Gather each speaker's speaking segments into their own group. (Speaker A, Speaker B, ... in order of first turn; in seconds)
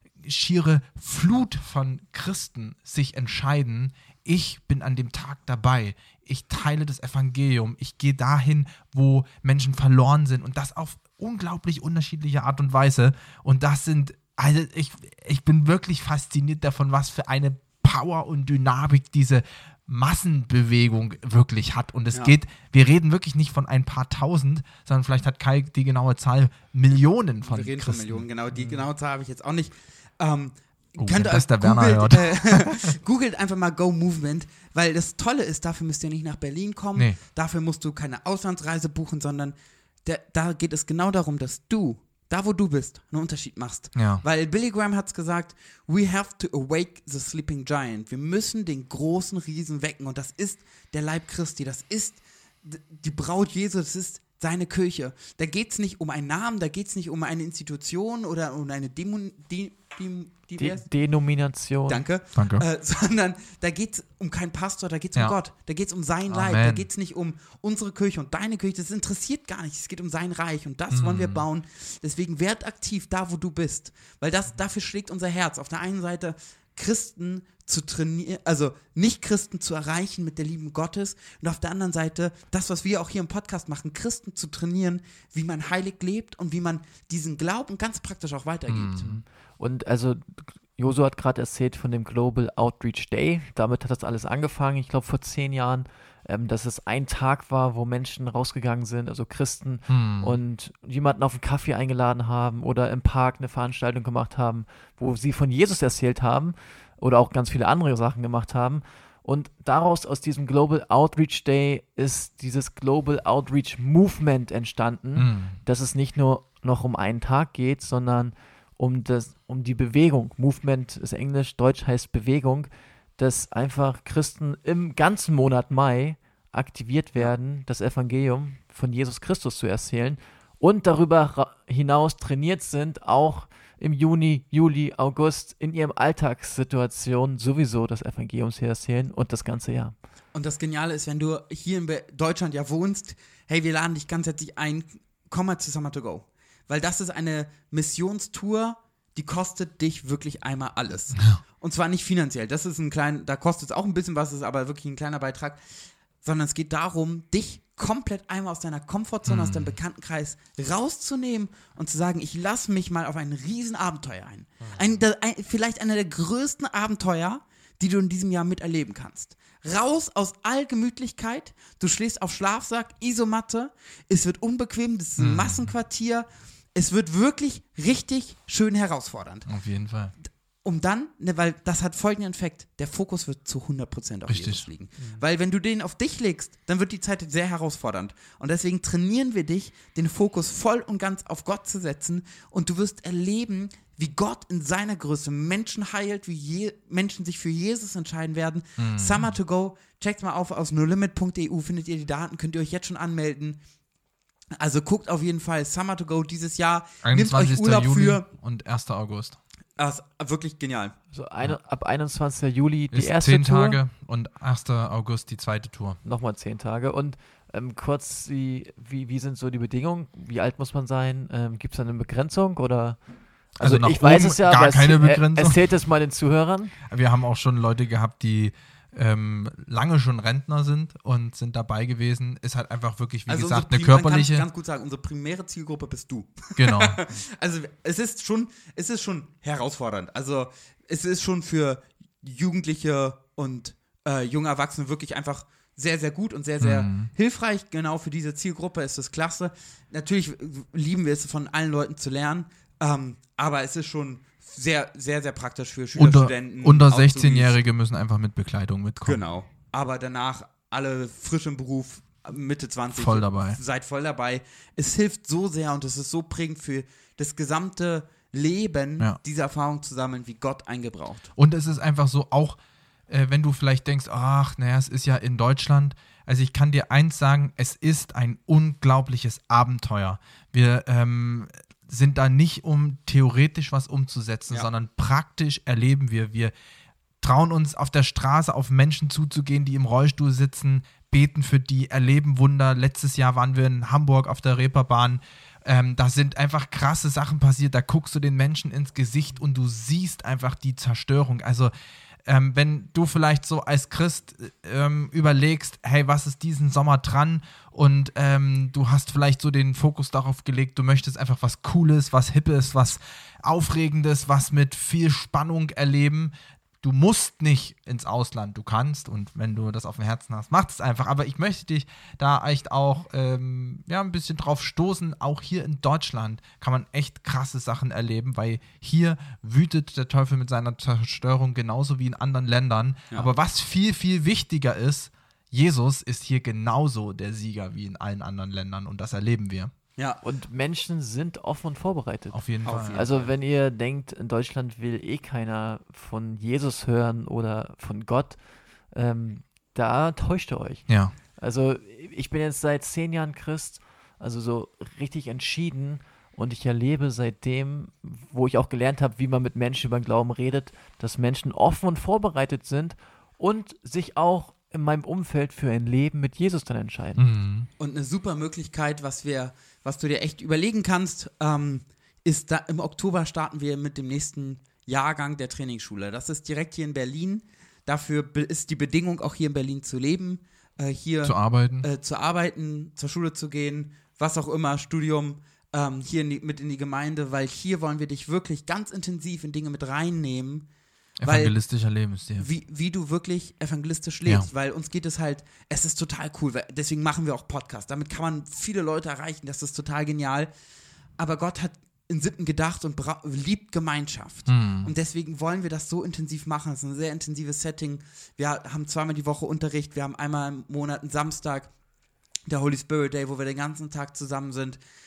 Speaker A: 0.2-28.3, 31.0-32.8, 44.0-44.2, 62.4-62.6, 66.3-66.9, 70.9-71.5, 88.7-89.2, 99.9-100.4, 115.2-115.6, 151.2-151.4, 159.2-159.8, 175.2-175.7, 179.5-180.2, 184.3-184.7, 198.8-199.3, 207.0-209.4, 212.9-216.0, 223.6-225.6, 226.9-234.5, 236.6-237.0, 246.6-247.1, 255.9-259.2, 262.9-263.6, 271.4-286.5, 287.2-301.7, 302.3-339.7, 342.3-343.1, 350.9-351.1, 367.2-367.7, 381.2-381.9, 391.2-392.5, 404.5-404.9
Speaker B: 27.4-60.9, 61.9-89.0, 140.3-155.6, 156.2-179.5, 180.6-203.6, 204.6-208.3, 209.8-210.9, 233.3-257.6, 259.1-271.3, 342.6-343.3, 367.8-390.7, 391.2-391.6, 392.4-400.5, 401.2-411.7, 412.5-414.8
Speaker C: 28.6-28.9, 60.6-62.1, 89.0-139.9, 211.1-213.8, 216.0-223.0, 223.5-226.8, 340.2-348.4, 348.9-367.3